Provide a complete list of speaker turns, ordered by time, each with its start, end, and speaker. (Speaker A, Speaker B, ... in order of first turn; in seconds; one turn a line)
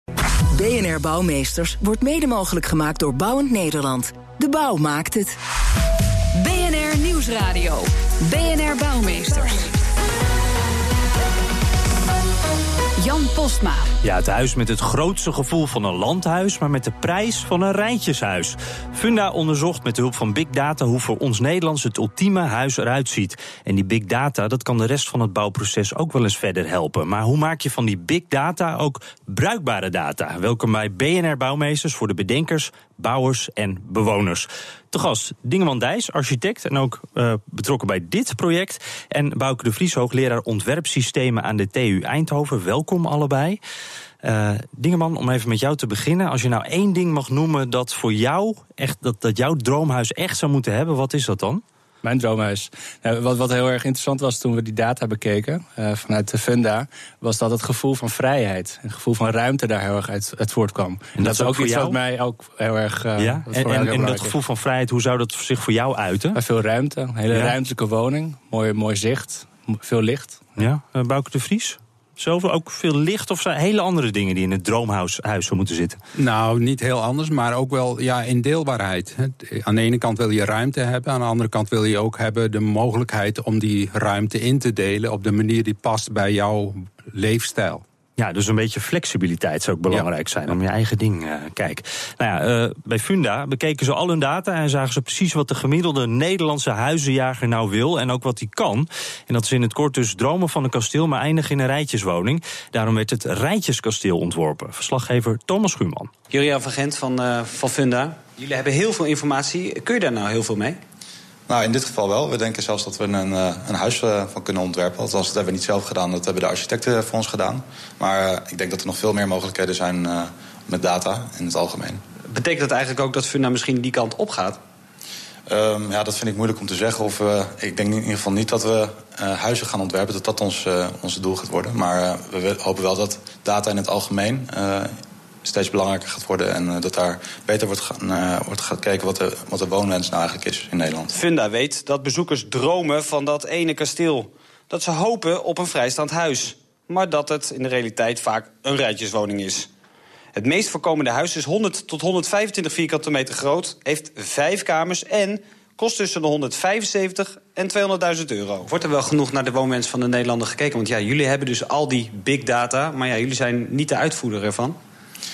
Speaker A: 0.5-5.3
Speaker B: 6.3-9.7
Speaker B: 13.0-13.9
Speaker C: 14.0-43.6
Speaker C: 44.2-51.6
Speaker D: 52.0-64.3
Speaker C: 61.2-62.0
Speaker C: 63.2-66.4
Speaker D: 66.3-70.5
Speaker C: 70.6-76.0
Speaker E: 76.2-87.8
Speaker C: 88.2-106.1
Speaker F: 106.3-110.8
Speaker G: 111.5-122.0
Speaker F: 122.3-124.6
Speaker G: 125.5-141.2
Speaker F: 141.1-149.7
Speaker F: 150.3-164.8